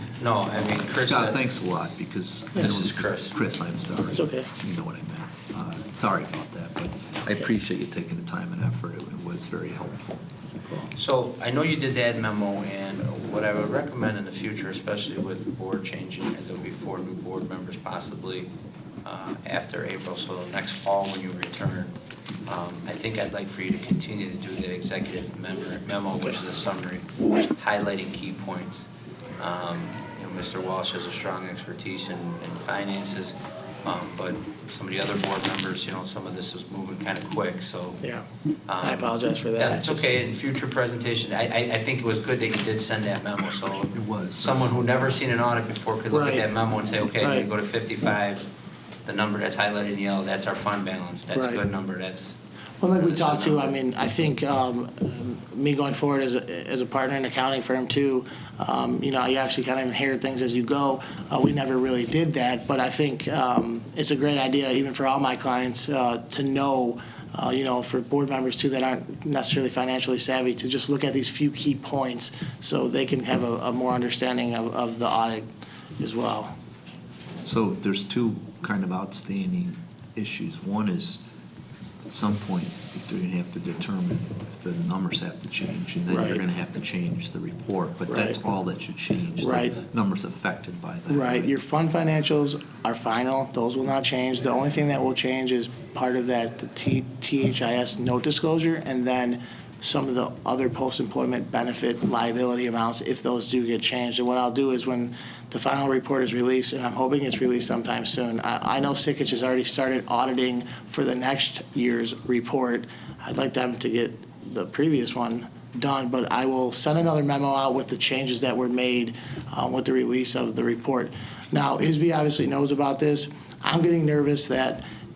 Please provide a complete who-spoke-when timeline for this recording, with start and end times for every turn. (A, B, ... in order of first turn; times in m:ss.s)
0:00.2-0:01.4 A
0:00.8-0:10.9 B
0:02.6-0:03.4 A
0:04.1-0:04.5 C
0:10.9-0:18.5 A
0:19.0-0:21.9 A
0:22.4-0:28.9 A
0:29.4-0:38.0 A
0:38.7-0:48.5 A
0:38.8-0:40.1 C
0:43.9-0:45.2 B
0:46.1-0:46.4 C
0:47.2-0:47.5 C
0:49.0-0:52.3 A
0:51.3-0:51.6 C
0:52.8-1:15.4 C
0:52.9-0:53.8 A
1:16.0-1:16.5 C
1:17.4-1:21.2 B
1:22.0-1:31.5 B
1:26.1-1:26.4 C
1:28.1-1:28.4 C
1:29.4-1:29.8 C
1:31.1-2:04.8 C